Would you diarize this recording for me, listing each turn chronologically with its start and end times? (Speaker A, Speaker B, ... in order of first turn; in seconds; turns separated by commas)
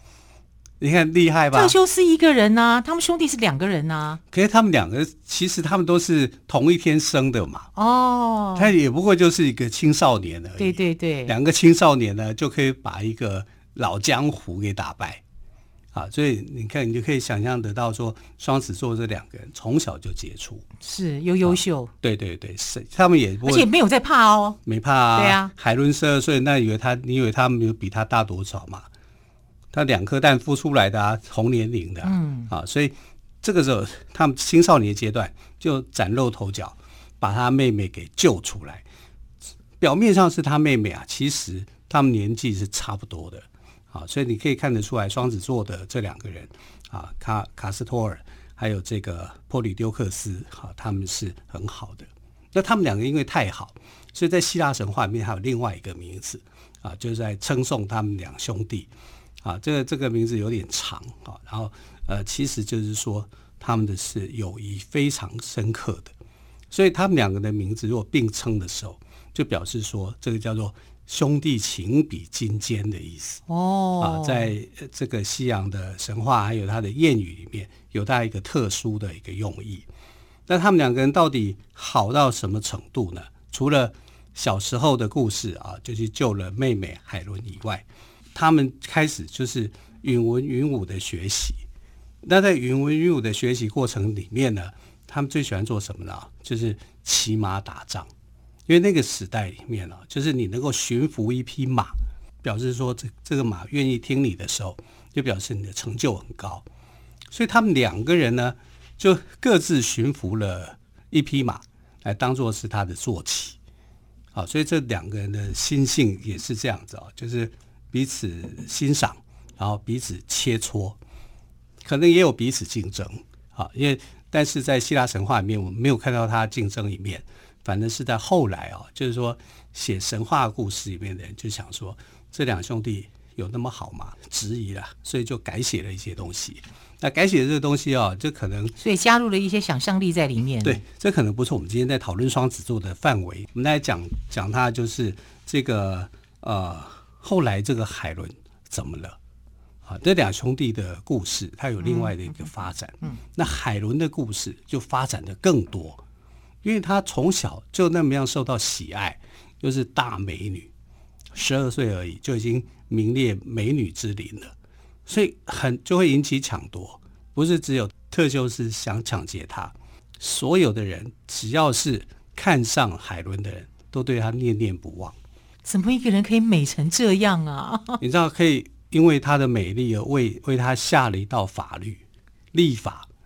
Speaker A: 0.8-1.8, Speaker B: 1.5-4.2, Speaker A: 4.3-7.7, Speaker B: 7.8-8.7, Speaker A: 8.6-15.2, Speaker B: 10.6-11.3, Speaker A: 15.9-20.6, Speaker B: 20.8-21.9, Speaker A: 21.4-23.7, Speaker B: 23.4-24.6, Speaker A: 24.6-28.9, Speaker B: 25.1-25.5, Speaker A: 29.7-38.8, Speaker B: 32.0-32.5, Speaker A: 39.8-58.9, Speaker A: 59.4-66.1, Speaker A: 66.7-73.4, Speaker B: 73.5-74.5, Speaker A: 74.0-79.9, Speaker A: 80.5-91.6, Speaker A: 92.2-98.1, Speaker A: 98.7-106.6, Speaker A: 107.3-113.6, Speaker A: 114.3-121.0, Speaker A: 121.8-138.8, Speaker B: 138.8-140.8, Speaker A: 140.6-149.2, Speaker A: 149.8-156.0, Speaker B: 151.8-152.4, Speaker A: 156.6-160.7, Speaker A: 161.3-164.5, Speaker A: 165.1-175.2, Speaker B: 175.6-178.0, Speaker A: 178.0-183.1